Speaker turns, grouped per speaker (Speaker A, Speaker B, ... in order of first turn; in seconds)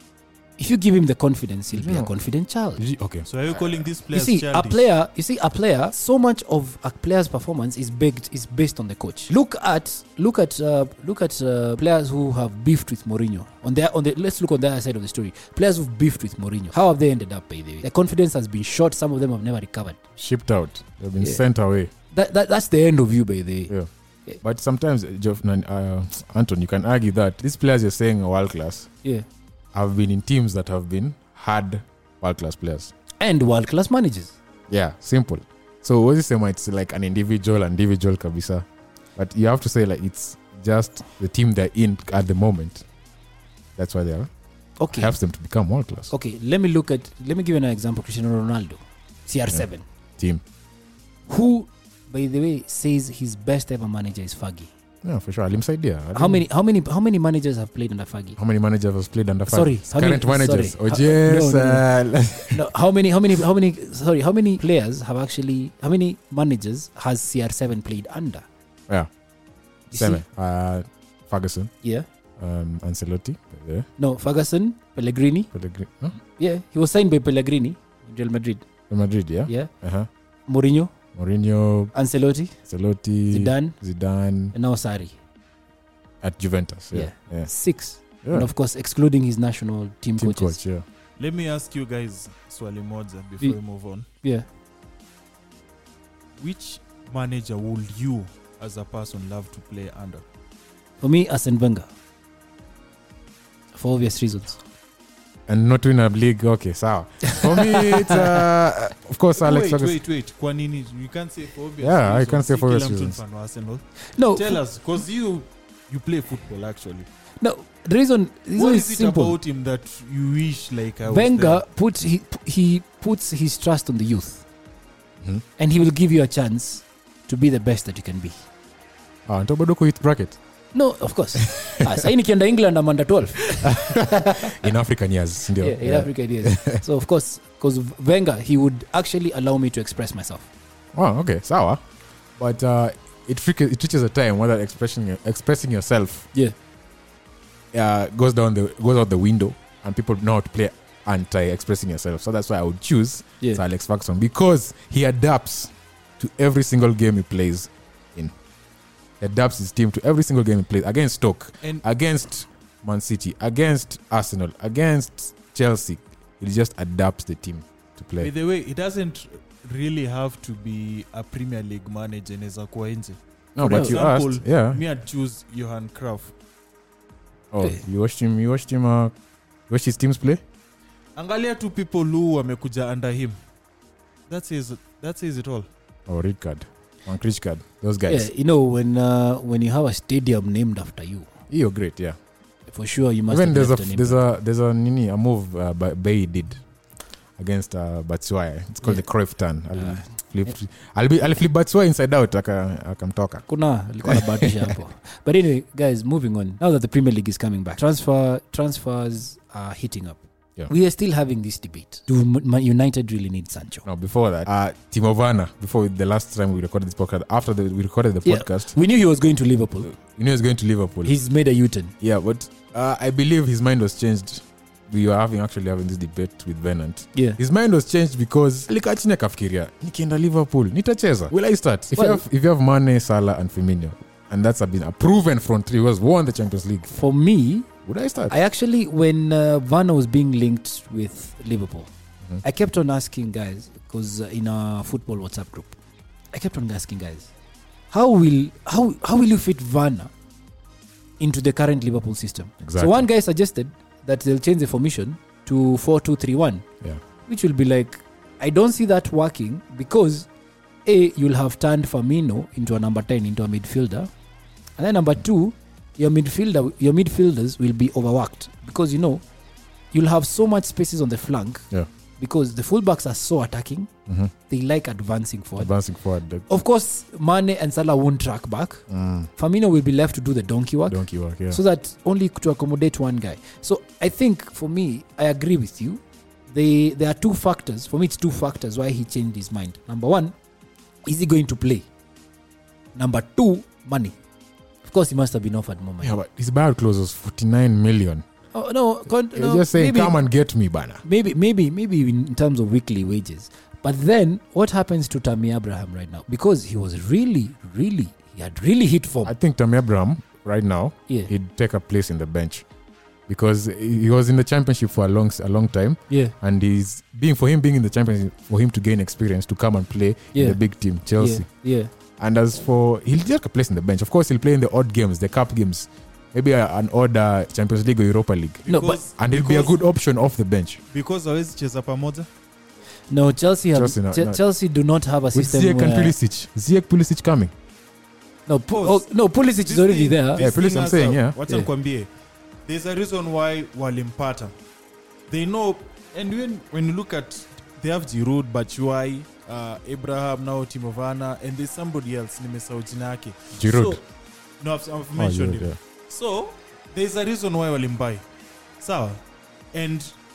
Speaker A: 0.6-2.8, 4.1-20.0, 22.1-23.7, 33.2-34.3, 44.8-45.1, 46.1-49.8, 51.3-54.7, 56.1-58.4, 59.5-68.4, 69.9-70.2, 74.0-75.5, 76.4-78.6, 80.5-80.9, 81.9-82.5, 83.3-83.8, 84.5-85.2, 86.9-90.6, 101.0-101.9, 103.7-104.6, 107.6-108.1, 114.2-114.6, 117.4-119.4, 121.0-124.4, 125.6-128.4, 130.7-134.6, 135.6-140.5, 173.6-174.0, 188.1-191.3, 192.7-194.2, 199.8-200.0, 203.5-213.8, 218.2-219.9, 221.0-221.9, 231.9-232.2, 236.9-237.7, 238.3-241.9, 242.4-245.8, 246.3-247.3, 247.9-250.1, 251.2-256.6, 257.3-260.3, 260.9-264.1, 264.8-269.2, 269.9-271.7, 272.2-273.9, 274.5-275.7, 276.5-278.8, 279.4-290.3, 291.0-291.9, 292.9-294.1, 294.8-296.2, 298.5-300.2, 301.0-309.3, 320.3-320.6, 321.1-321.9, 328.7-329.0, 333.1-336.1, 338.5-340.4
Speaker B: 1.7-2.1, 2.8-3.9, 20.2-21.9, 24.4-28.9, 29.7-32.9, 34.7-38.6, 39.1-42.8, 43.8-44.3, 44.9-46.1, 55.0-56.4, 58.4-62.6, 70.0-71.7, 72.4-73.8, 75.5-76.2, 78.9-80.1, 81.1-81.9, 82.7-84.5, 86.2-87.5, 88.2-88.5, 90.2-90.8, 105.5-110.0, 111.8-113.2, 129.2-130.4, 131.4-132.0, 133.5-136.8, 140.9-141.8, 142.4-146.3, 147.7-158.3, 159.2-168.3, 173.6-174.8, 177.5-179.1, 179.7-180.4, 186.1-188.3, 191.5-192.2, 193.3-196.6, 197.4-203.4, 204.0-204.7, 213.8-218.7, 219.8-221.2, 222.0-236.9, 237.8-238.3, 252.6-253.1, 274.1-274.3, 275.6-276.4, 278.9-279.3, 280.9-281.6, 296.0-298.2, 299.3-301.0, 309.2-312.6, 313.3-321.5, 322.2-330.8, 333.7-334.4, 335.3-337.5, 340.4-341.4, 353.5-354.0, 355.2-355.8
Speaker C: 3.2-4.8, 91.2-94.1, 96.4-100.2, 109.4-113.8, 114.3-117.1, 118.6-121.6, 168.2-176.3, 181.2-183.3, 184.3-185.7, 328.6-329.8, 330.9-332.3, 338.7-342.1, 342.6-344.5, 345.3-354.0, 354.6-358.2, 358.8-359.2, 359.7-360.1